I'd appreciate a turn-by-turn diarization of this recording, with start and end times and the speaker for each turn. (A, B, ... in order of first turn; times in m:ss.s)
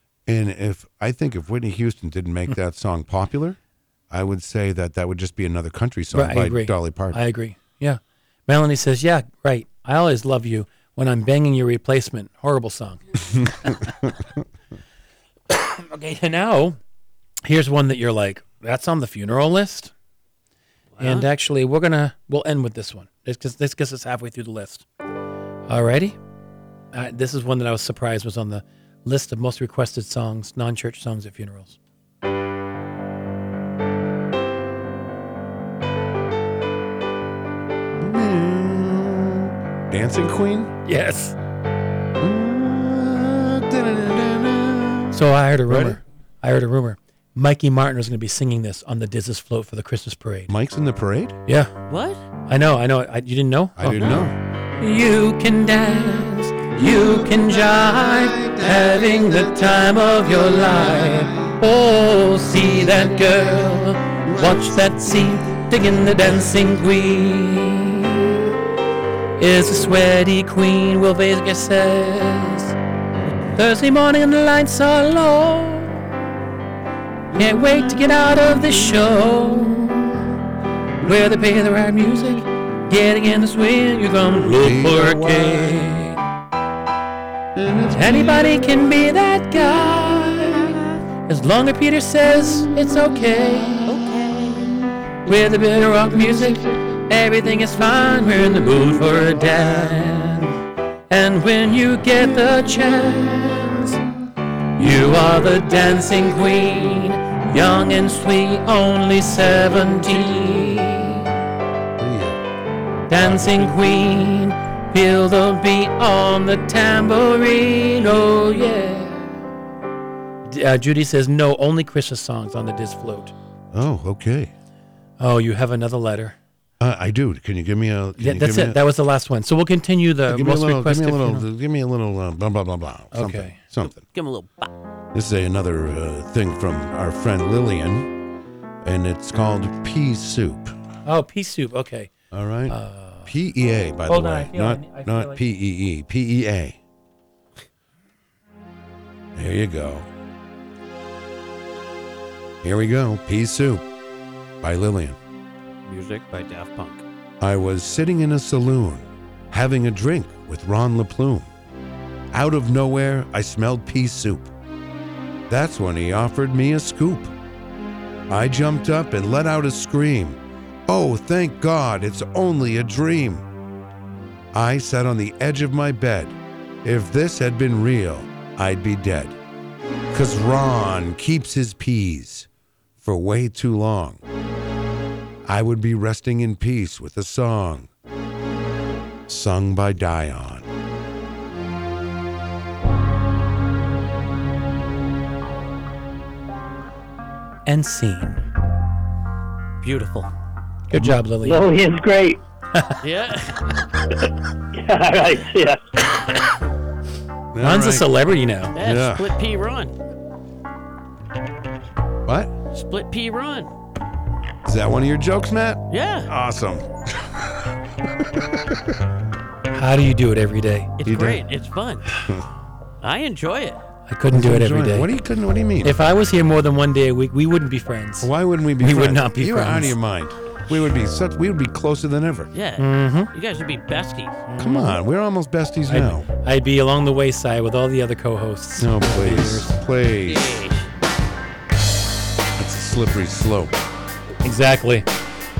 0:00.3-0:03.6 A
0:04.1-0:07.2 A
0:06.1-0:13.0 B
0:13.3-0:14.4 A
0:15.5-0:16.8 B
0:17.4-0:19.9 B
0:20.9-0:21.3 C
0:21.0-0:24.8 B
0:25.7-0:26.2 B
0:26.9-0:31.8 B
0:38.0-0:40.7 A
0:40.8-0:41.4 B
0:42.2-0:46.0 A
0:45.1-0:50.5 B
0:50.5-0:51.4 A
0:51.5-0:51.7 B
0:51.9-0:52.2 C
0:52.5-1:08.4 B
0:53.8-0:54.3 A
0:56.8-1:01.6 A
1:02.5-1:06.7 A
1:09.4-1:12.8 B
1:13.5-1:16.2 B
1:17.3-1:20.4 A
1:17.3-1:20.0 B
1:21.0-1:26.2 B
1:24.6-1:25.8 A
1:27.5-1:28.9 A
1:27.9-1:33.9 B
1:30.2-1:30.8 A
1:32.8-1:34.0 A
1:33.9-1:34.7 C
1:34.5-1:34.8 A
1:35.2-1:40.6 B
1:36.2-1:36.7 A
1:39.2-1:39.9 A
1:41.1-1:44.0 B
1:44.8-1:51.3 B
1:52.0-1:52.4 A
1:53.1-1:59.4 B
1:53.1-1:54.1 A
2:00.4-2:03.3 B
2:03.7-2:04.5 A
2:05.2-2:06.4 B
2:06.8-2:08.8 A
2:08.2-2:11.5 B
2:10.3-2:14.0 A
2:13.1-2:13.6 B
2:13.8-2:14.7 C
2:15.1-2:18.1 A
2:18.8-2:20.7 A
2:21.0-2:22.1 B
2:22.3-2:26.8 A
2:22.7-2:23.3 B
2:24.0-2:25.4 B
2:29.3-2:30.1 A
2:32.6-2:33.8 A
2:34.6-2:35.2 A
2:35.8-2:37.0 C
2:37.4-2:41.5 A
2:42.3-2:44.5 A
2:45.5-2:47.3 A
2:48.3-2:53.4 A
2:54.5-2:59.4 A
3:00.1-3:02.5 A
3:03.0-3:04.2 A
3:05.4-3:07.9 A
3:09.3-3:10.7 A
3:17.6-3:18.4 B
3:19.8-3:20.3 C
3:20.9-3:21.6 B
3:21.4-3:22.4 D
3:23.0-3:23.6 C
3:24.7-3:25.8 D
3:27.5-3:28.1 A
3:27.6-3:28.8 B
3:28.8-3:29.9 C
3:28.8-3:29.3 A
3:32.2-3:32.5 A
3:32.7-3:33.7 C
3:34.6-3:37.5 A
3:35.9-3:36.3 C
3:39.7-3:40.9 B
3:41.0-3:42.0 C
3:41.0-3:41.4 A
3:42.2-3:42.4 A
3:43.0-3:43.8 C
3:44.0-3:45.1 B
3:44.3-3:46.0 A
3:45.8-3:50.0 B
3:48.2-3:52.5 A
3:52.5-3:54.4 C
3:52.8-3:53.3 B
3:54.5-3:55.0 B
3:54.6-3:56.2 A
3:55.8-3:59.8 B
3:58.8-4:00.6 A
4:00.3-4:01.0 C
4:02.6-4:03.8 A
4:04.4-4:05.0 B